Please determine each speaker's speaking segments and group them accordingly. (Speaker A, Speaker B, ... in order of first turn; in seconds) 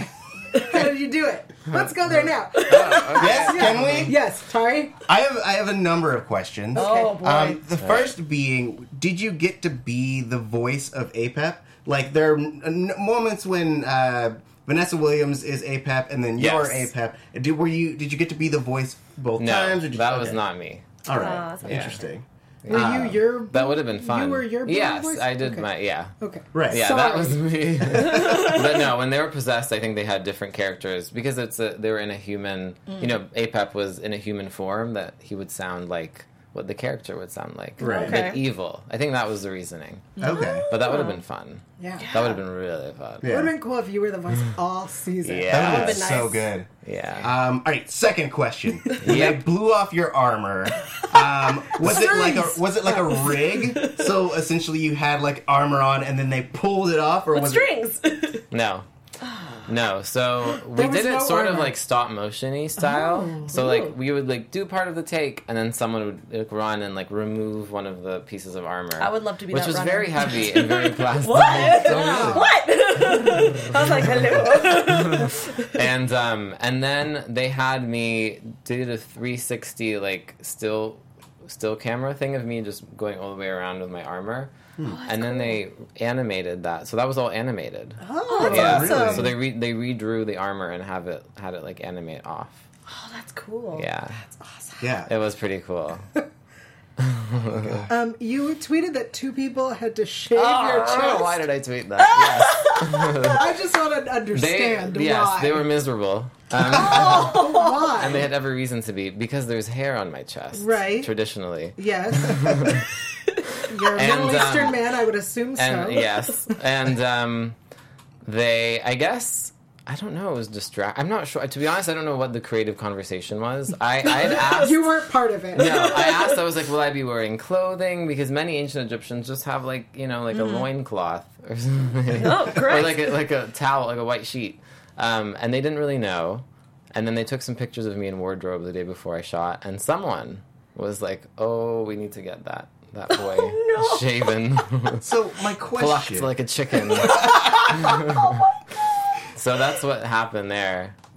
Speaker A: 0.5-5.0, 6.7-7.2, 22.7-25.7, 26.2-27.5, 32.9-33.1, 37.8-38.1, 40.2-40.4, 41.8-42.1, 43.2-45.7, 51.7-53.6, 60.7-61.8, 62.8-63.6, 72.0-72.4, 88.0-89.2, 97.9-101.3, 103.4-105.7, 106.6-108.3, 110.5-111.1, 111.8-112.8, 113.7-116.2, 124.3-125.9, 130.3-130.7
Speaker B: 2.5-4.2, 7.8-8.1, 16.4-16.9, 19.4-22.0, 22.6-26.1, 26.7-40.2, 40.7-43.3, 45.2-46.1, 46.8-47.3, 49.0-49.4, 58.5-58.9, 59.6-72.2, 74.5-84.5, 85.0-92.6, 93.7-94.2, 95.1-96.1, 97.0-97.8, 100.8-103.5, 104.3-112.9, 113.9-114.8, 115.5-117.5, 118.2-124.9, 125.5-145.0, 145.7-148.2, 149.3-151.0
Speaker C: 2.6-3.2, 6.7-7.6, 21.1-22.1, 28.0-28.8, 37.8-38.4, 40.2-41.2, 42.0-42.4, 45.5-46.5, 48.9-49.3, 53.7-54.2, 57.3-58.4, 59.2-59.6, 63.5-63.9, 69.0-75.8, 84.8-85.6, 88.3-89.3, 92.9-94.5, 100.3-101.3, 102.0-103.5, 106.7-108.0, 124.0-124.7, 125.5-126.4, 132.1-133.2, 143.1-144.3, 147.0-148.6
Speaker D: 3.1-4.2, 5.0-20.4, 21.0-23.2, 26.5-26.9, 37.8-38.2, 40.2-40.7, 43.2-43.5, 45.5-46.7, 47.2-57.7, 71.7-72.5, 88.4-89.3, 94.8-95.1, 145.0-146.3, 147.0-147.8